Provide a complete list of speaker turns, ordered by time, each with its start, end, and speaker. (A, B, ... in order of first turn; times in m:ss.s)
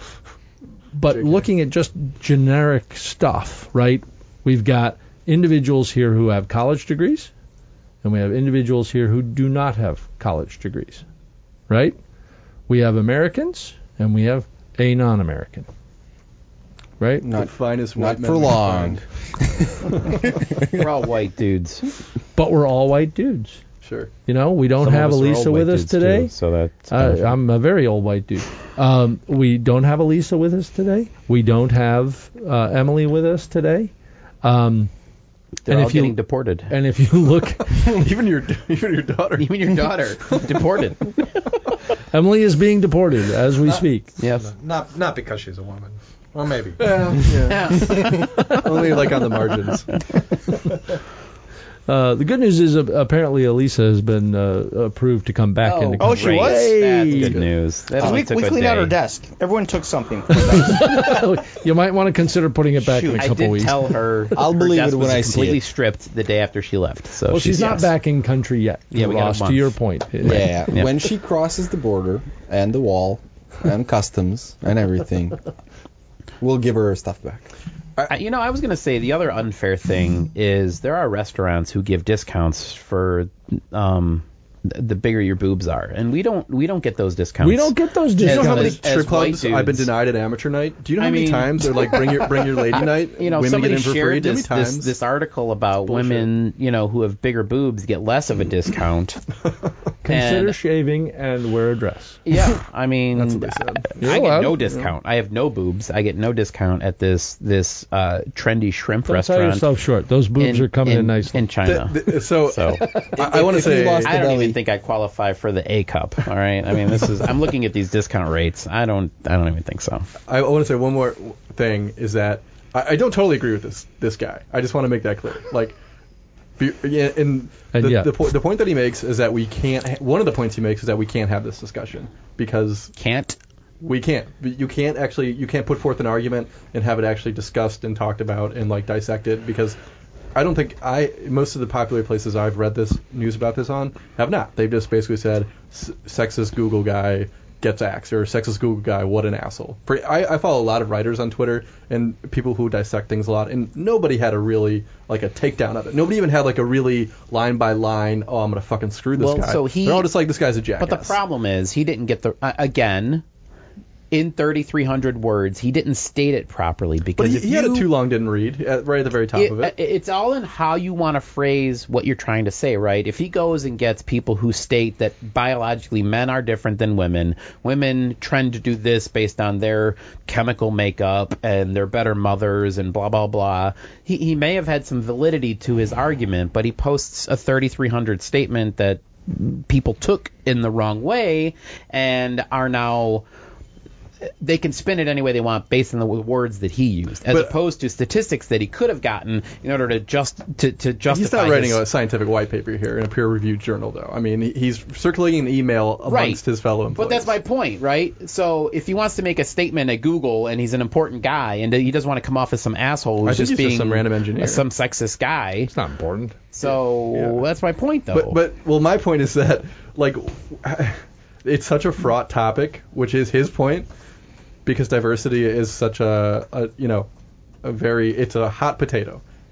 0:00.9-0:07.3 A
0:01.1-0:01.5 B
0:08.0-0:11.0 A
0:11.7-0:12.0 A
0:12.7-0:15.7 A
0:17.0-0:17.3 A
0:17.2-0:20.9 C
0:17.2-0:19.0 B
0:20.7-0:21.9 D
0:22.4-0:23.6 A
0:23.8-0:24.1 B
0:24.3-0:26.3 A
0:24.8-0:27.4 D
0:26.9-0:33.9 A
0:34.4-0:34.9 A
0:35.7-0:36.7 D
0:35.7-0:37.8 A
0:37.8-0:40.4 B
0:39.4-0:41.2 D
0:42.1-0:44.1 A
0:44.2-0:44.5 D
0:44.3-0:48.5 E
0:46.8-0:47.9 B
0:47.5-0:48.5 D
0:48.4-0:49.9 B
0:51.9-0:57.4 A
0:55.6-0:58.9 D
0:56.0-0:56.8 F
0:57.2-0:57.5 B
0:58.0-1:01.1 F
1:00.4-1:04.0 A
1:02.8-1:03.3 F
1:03.2-1:07.9 D
1:04.4-1:05.6 C
1:07.3-1:10.6 A
1:08.9-1:10.9 D
1:10.2-1:15.4 C
1:16.4-1:17.5 C
1:18.1-1:29.9 D
1:27.4-1:28.8 A
1:28.2-1:35.0 B
1:31.0-1:39.2 D
1:35.8-1:36.3 B
1:40.0-1:42.2 A
1:40.1-1:40.6 D
1:42.3-1:49.7 D
1:43.1-1:44.0 B
1:44.0-1:44.6 A
1:49.1-1:51.5 A
1:50.4-1:53.1 D
1:51.6-1:54.2 B
1:53.2-1:54.6 C
1:53.6-2:00.1 D
2:00.3-2:05.8 B
2:06.6-2:12.9 B
2:07.7-2:08.1 A
2:13.0-2:13.4 D
2:13.8-2:19.8 B
2:20.4-2:41.2 B
2:39.2-2:40.1 D
2:40.8-2:43.2 D
2:44.1-2:47.9 D
2:47.2-2:49.7 B
2:49.4-3:13.2 D
3:14.4-3:21.8 D
3:17.3-3:17.5 B
3:21.1-3:27.4 B
3:26.1-3:26.4 D
3:26.9-3:35.7 D
3:33.2-3:34.6 B
3:35.7-3:36.4 A
3:36.5-3:38.4 D
3:36.6-3:37.4 B
3:38.1-3:43.9 B
3:44.6-3:47.1 B
3:47.6-3:49.2 B